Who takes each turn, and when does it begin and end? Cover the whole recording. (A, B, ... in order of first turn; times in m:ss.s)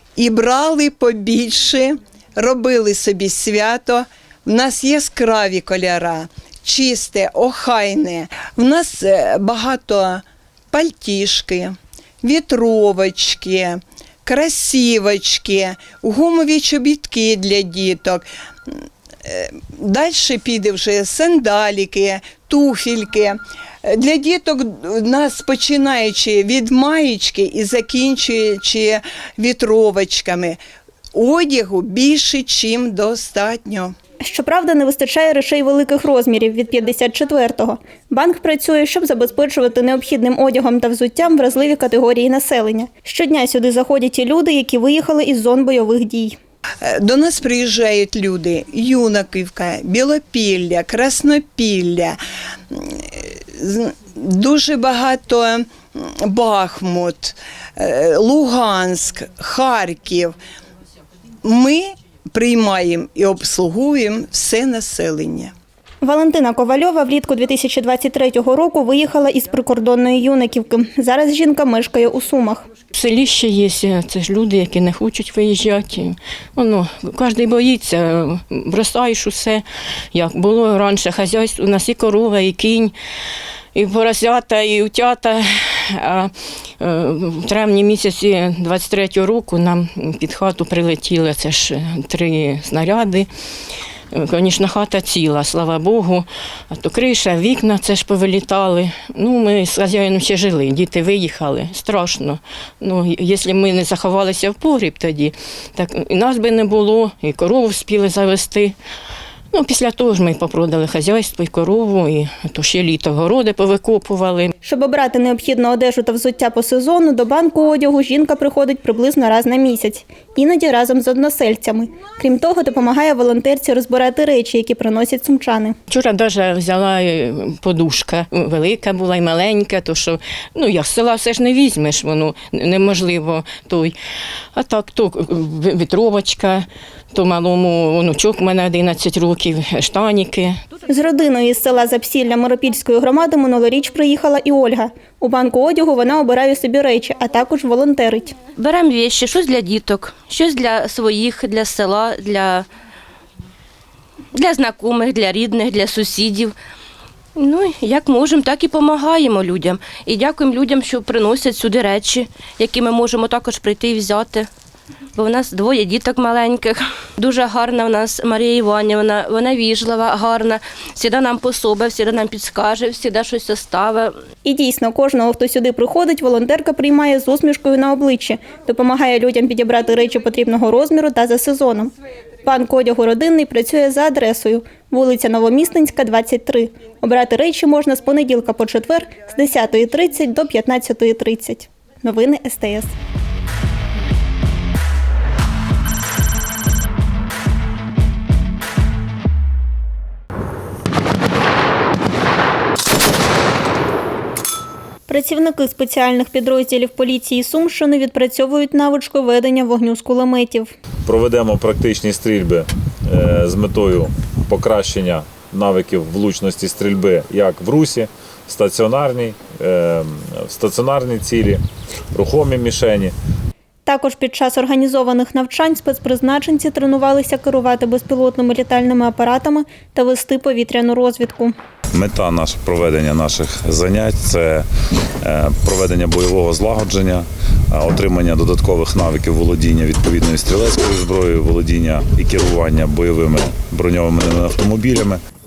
0:00.2-0:18.2 A
0:19.3-0:23.4 A
0:23.9-0:30.6 A
0:31.2-0:33.9 A
0:34.2-0:46.4 B
0:46.8-0:52.2 A
0:52.7-1:00.3 A
1:01.4-1:01.8 A
1:02.4-1:05.5 A
1:06.0-1:12.6 B
1:12.9-1:22.9 C
1:23.7-1:33.3 C
1:34.1-1:48.7 C
1:49.5-1:54.5 C
1:54.6-2:05.8 B
2:05.9-2:13.9 C
2:14.5-2:20.6 C
2:20.9-2:28.4 B
2:28.6-2:32.7 D
2:34.3-2:36.5 D
2:37.4-2:44.5 D
2:45.2-2:54.2 D
2:54.4-3:01.9 B
3:02.4-3:12.9 B
3:25.1-3:30.7 B
3:31.0-3:41.6 E
3:42.1-3:43.1 E
3:43.8-3:51.5 B
3:51.9-3:54.6 E
3:55.2-4:05.2 E